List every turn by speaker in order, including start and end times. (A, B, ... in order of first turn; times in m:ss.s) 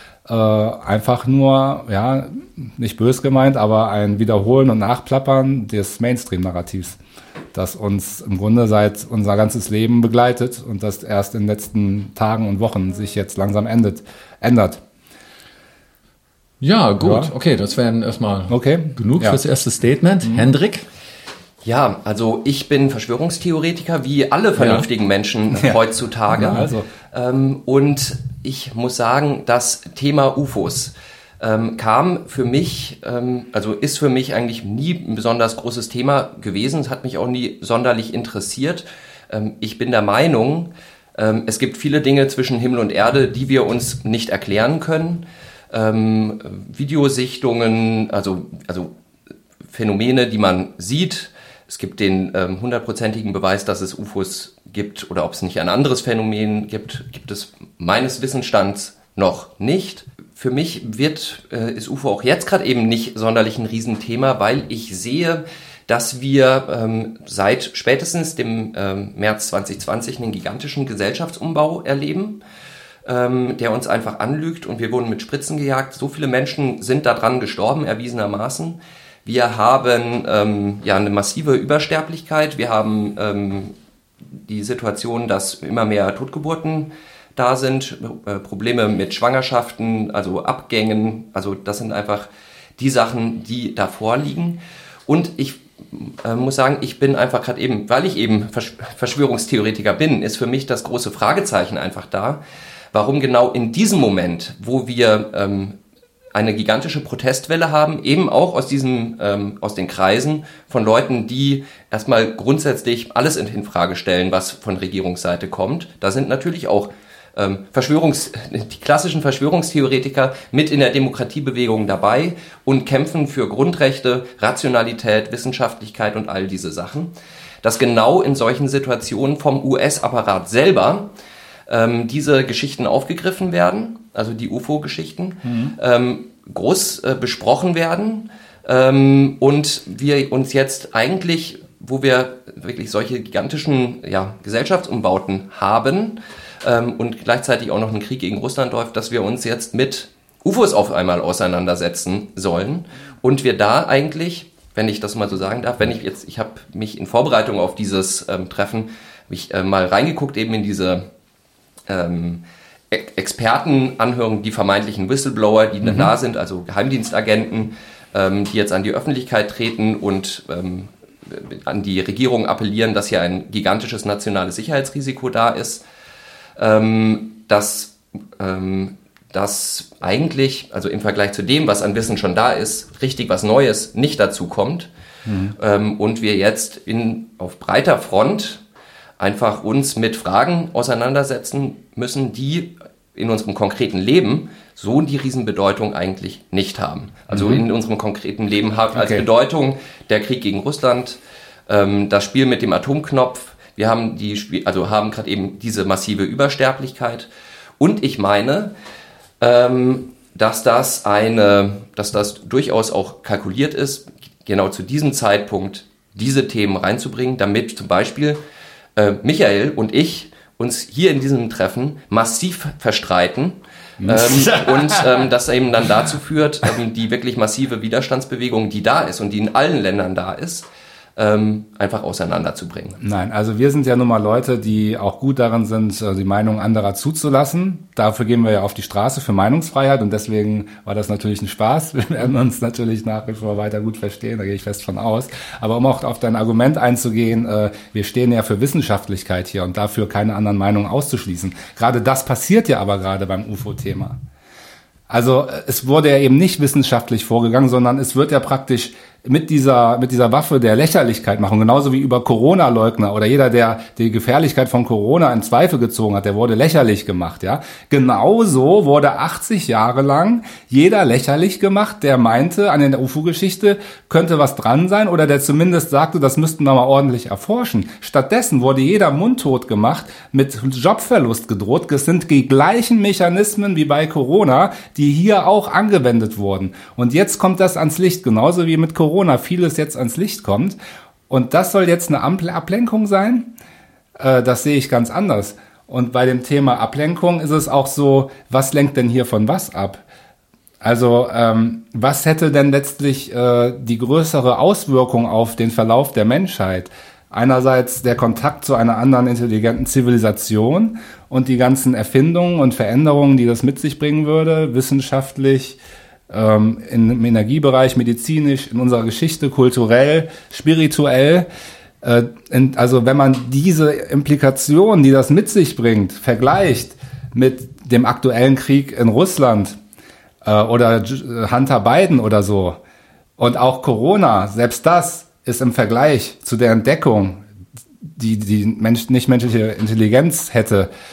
0:00.3-0:07.0 A
0:07.5-0:14.8 A
0:16.6-0:20.9 B
0:17.0-0:17.3 A
0:18.5-0:19.4 A
0:20.2-0:20.5 A
0:21.6-0:48.9 C
0:24.6-0:24.8 B
0:26.3-0:26.9 A
0:49.7-1:12.4 C
1:13.0-1:23.7 C
1:24.4-1:42.4 C
1:42.9-1:45.8 C
1:46.3-2:11.1 C
2:11.7-2:41.1 C
2:15.4-2:15.7 A
2:41.9-2:55.8 C
2:56.6-3:04.9 C
3:05.3-3:05.6 A
3:05.6-3:08.6 C
3:09.2-3:27.3 C
3:17.3-3:17.6 A
3:18.9-3:19.3 A
3:27.8-3:28.7 C
3:29.4-3:38.4 C
3:39.0-3:53.0 C
3:44.0-3:45.2 A
3:53.0-4:14.2 A
4:15.1-4:50.8 A
4:51.3-4:53.5 A
4:54.2-5:00.0 A
5:00.8-5:15.8 A
5:16.3-5:21.5 A
5:22.0-5:29.8 A
5:30.4-5:32.8 A
5:33.4-5:37.4 A
5:38.1-5:40.9 A